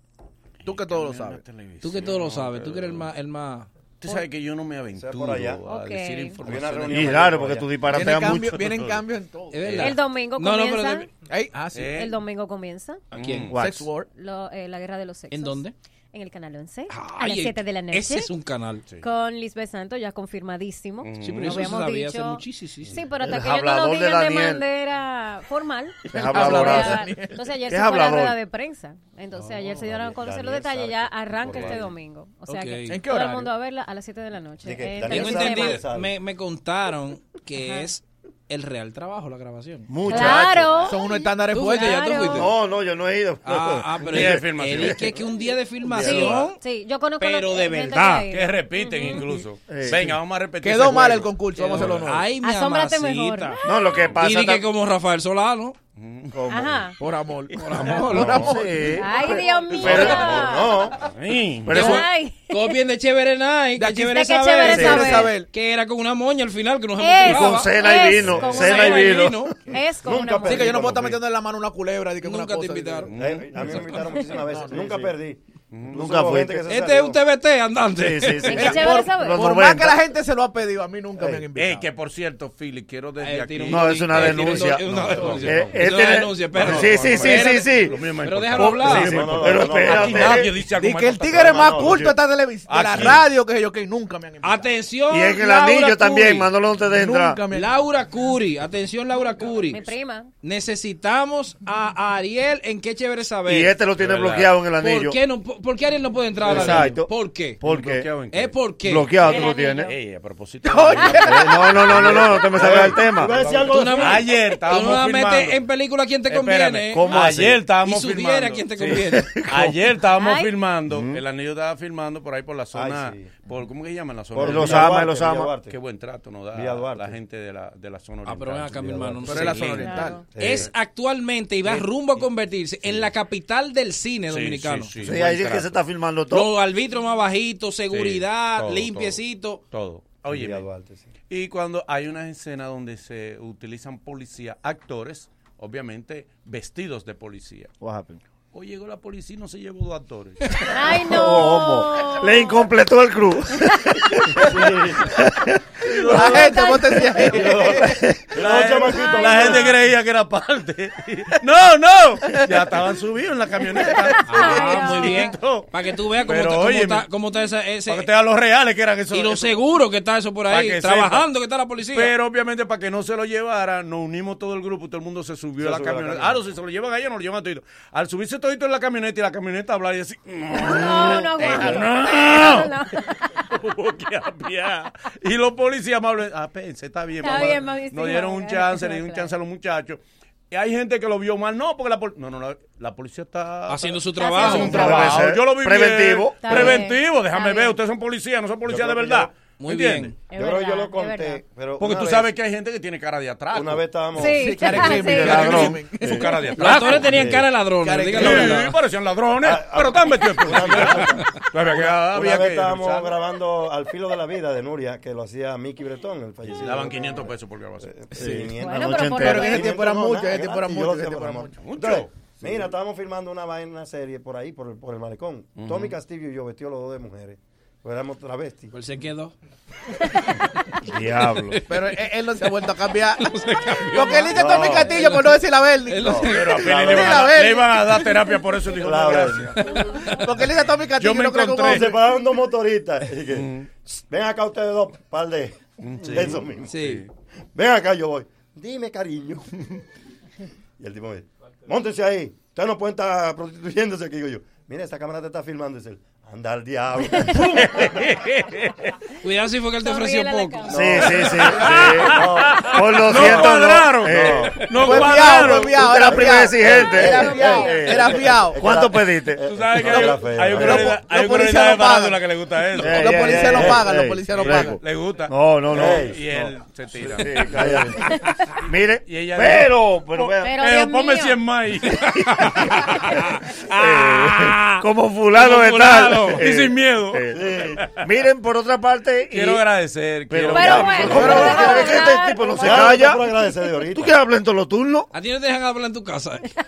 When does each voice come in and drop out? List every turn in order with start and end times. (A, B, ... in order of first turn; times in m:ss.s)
0:00.6-0:03.1 A
0:00.6-0:01.4 B
0:01.8-0:03.7 C
0:04.0-0:07.3 A
0:05.0-0:05.6 D
0:05.7-0:06.4 E
0:06.4-0:07.7 D
0:06.9-0:08.6 F
0:07.9-0:09.8 B
0:08.5-0:09.0 A
0:09.5-0:11.1 C
0:09.6-0:09.9 A
0:09.8-0:11.1 E
0:11.3-0:12.0 B
0:11.7-0:12.1 A
0:11.9-0:13.0 E
0:13.1-0:13.5 A
0:13.1-0:13.5 C
0:13.5-0:13.8 F
0:13.5-0:14.1 B
0:14.1-0:18.3 E
0:15.3-0:15.7 C
0:16.9-0:18.8 C
0:19.0-0:35.8 E
0:21.0-0:21.7 A
0:21.2-0:23.0 C
0:23.2-0:24.6 F
0:26.1-0:27.4 B
0:26.1-0:27.1 F
0:27.7-0:28.4 F
0:29.4-0:31.9 D
0:32.5-0:33.0 C
0:32.9-0:33.5 B
0:34.6-0:36.1 D
0:35.0-0:40.4 C
0:37.6-0:37.9 E
0:39.9-0:40.9 F
0:40.1-0:42.5 E
0:40.8-0:42.2 B
0:41.5-0:42.5 C
0:42.3-0:44.9 F
0:43.4-0:46.6 C
0:44.1-0:45.3 A
0:45.9-0:46.4 A
0:45.9-0:46.4 F
0:46.1-0:49.2 E
0:47.2-0:48.3 C
0:48.3-0:52.0 A
0:49.7-0:50.2 F
0:50.6-0:52.3 B
0:51.6-0:53.6 C
0:52.4-0:53.6 E
0:53.6-0:54.7 F
0:54.2-0:55.8 C
0:56.0-0:56.6 A
0:56.3-0:56.8 F
0:56.5-0:57.0 E
0:57.0-0:59.0 B
0:57.5-0:58.5 C
0:58.1-0:58.4 D
0:58.2-1:00.4 F
0:59.0-1:00.8 E
0:59.8-1:01.0 D
1:01.0-1:02.0 A
1:01.6-1:02.0 F
1:01.7-1:09.6 C
1:01.7-1:02.7 E
1:03.8-1:05.5 B
1:04.0-1:05.3 E
1:07.0-1:10.8 E
1:07.2-1:09.5 F
1:10.0-1:11.2 D
1:10.4-1:15.2 B
1:12.2-1:13.1 C
1:13.1-1:13.7 A
1:13.2-1:17.2 D
1:15.7-1:16.2 A
1:15.9-1:16.6 F
1:16.6-1:18.8 C
1:18.0-1:20.0 F
1:18.5-1:19.4 E
1:18.6-1:21.9 B
1:21.6-1:25.6 A
1:23.2-1:27.6 C
1:23.7-1:24.8 F
1:24.9-1:25.5 D
1:25.4-1:28.0 F
1:26.6-1:27.5 D
1:26.6-1:32.0 A
1:28.2-1:29.2 C
1:28.6-1:30.5 F
1:29.0-1:30.4 D
1:30.7-1:34.8 B
1:31.3-1:32.1 D
1:32.7-1:33.2 A
1:34.4-1:36.5 C
1:35.1-1:37.4 F
1:36.9-1:37.7 B
1:37.5-1:39.8 C
1:39.7-1:40.3 E
1:40.4-1:43.8 C
1:43.5-1:45.2 F
1:44.0-1:44.5 A
1:44.8-1:47.6 C
1:46.4-1:46.9 A
1:46.5-1:48.1 F
1:47.6-1:48.6 A
1:48.3-1:49.1 C
1:48.8-1:49.9 F
1:49.2-1:55.6 A
1:49.3-1:49.9 E
1:50.6-1:51.9 B
1:51.2-1:53.4 F
1:52.5-1:54.2 D
1:53.6-1:57.1 C
1:56.3-2:05.0 A
1:56.9-1:57.6 F
1:57.8-1:59.3 C
1:59.1-1:59.8 F
2:00.2-2:00.5 E
2:00.9-2:01.2 F
2:02.7-2:03.4 D
2:04.3-2:05.8 D
2:04.4-2:05.5 F
2:05.7-2:08.8 A
2:06.5-2:07.2 D
2:08.3-2:14.9 C
2:08.8-2:09.5 D
2:09.2-2:10.3 B
2:09.8-2:10.2 E
2:10.3-2:10.7 D
2:11.7-2:12.2 A
2:12.8-2:13.1 A
2:14.3-2:15.8 A
2:15.0-2:16.5 F
2:16.3-2:19.6 C
2:17.9-2:20.6 A
2:20.3-2:21.1 D
2:21.3-2:27.7 A
2:27.8-2:28.2 F
2:28.5-2:30.7 A
2:30.7-2:32.6 E
2:31.0-2:35.6 F
2:35.9-2:38.0 B
2:36.2-2:37.3 E
2:37.3-2:39.7 D
2:37.8-2:38.2 F
2:38.3-2:47.1 A
2:39.0-2:39.7 E
2:43.9-2:45.3 E
2:44.3-2:48.1 C
2:47.9-2:49.6 A
2:49.1-2:52.1 C
2:50.5-2:51.3 A
2:51.9-3:02.7 A
2:55.6-2:56.4 D
3:00.5-3:03.2 E
3:03.4-3:10.0 A
3:07.2-3:09.3 E
3:10.5-3:20.1 A
3:13.7-3:14.9 C
3:14.2-3:15.1 E
3:14.6-3:16.7 F
3:16.4-3:17.8 E
3:18.7-3:19.3 D
3:19.6-3:20.2 C
3:20.3-3:21.4 E
3:20.3-3:22.3 D
3:21.8-3:23.8 A
3:23.5-3:24.4 D
3:24.2-3:25.6 E
3:24.3-3:26.4 B
3:25.0-3:26.3 F
3:26.0-3:27.2 A
3:26.5-3:28.7 C
3:27.1-3:27.5 D
3:27.8-3:28.6 B
3:28.1-3:33.1 A
3:29.4-3:48.7 D
3:36.5-3:37.9 A
3:38.2-3:39.6 F
3:38.6-3:39.7 E
3:39.2-3:41.7 B
3:41.6-3:42.1 A
3:45.6-3:45.9 A
3:48.7-3:49.3 C
3:50.9-3:51.6 F
3:51.5-3:51.9 C
3:51.7-3:53.3 B
3:53.1-3:55.3 C
3:53.9-3:56.3 B
3:54.3-3:55.0 D
3:55.9-3:56.7 C
3:56.0-3:57.3 D
3:56.2-3:59.7 A
3:56.8-3:57.8 B
3:58.8-3:59.6 D
4:00.1-4:02.0 B
4:01.0-4:01.9 A
4:01.7-4:06.8 D
4:03.3-4:03.7 A
4:05.8-4:07.1 A
4:06.7-4:07.0 C
4:07.6-4:09.5 D
4:10.8-4:17.4 D
4:17.3-4:18.9 A
4:19.2-4:20.8 C
4:19.8-4:21.0 E
4:20.7-4:21.3 D
4:20.7-4:29.4 F
4:21.4-4:25.8 A
4:22.1-4:23.5 D
4:24.0-4:24.6 D
4:24.8-4:28.7 B
4:26.0-4:31.0 D
4:27.0-4:27.9 E
4:29.4-4:33.7 A
4:29.8-4:32.2 B
4:32.8-4:34.8 B
4:32.8-4:36.1 F
4:34.4-4:37.8 A
4:35.7-4:37.9 D
4:37.0-4:38.0 F
4:38.6-4:40.5 F
4:39.1-4:42.6 A
4:40.4-4:41.4 E
4:42.3-4:42.6 F
4:43.1-4:46.4 C
4:43.7-4:49.6 F
4:46.2-4:48.0 A
4:47.3-4:47.8 D
4:49.3-4:51.6 A
4:50.3-4:53.3 F
4:50.5-4:52.9 E
4:51.1-4:52.0 B
4:52.6-4:54.1 D
4:53.9-4:55.1 F
4:55.1-4:56.5 C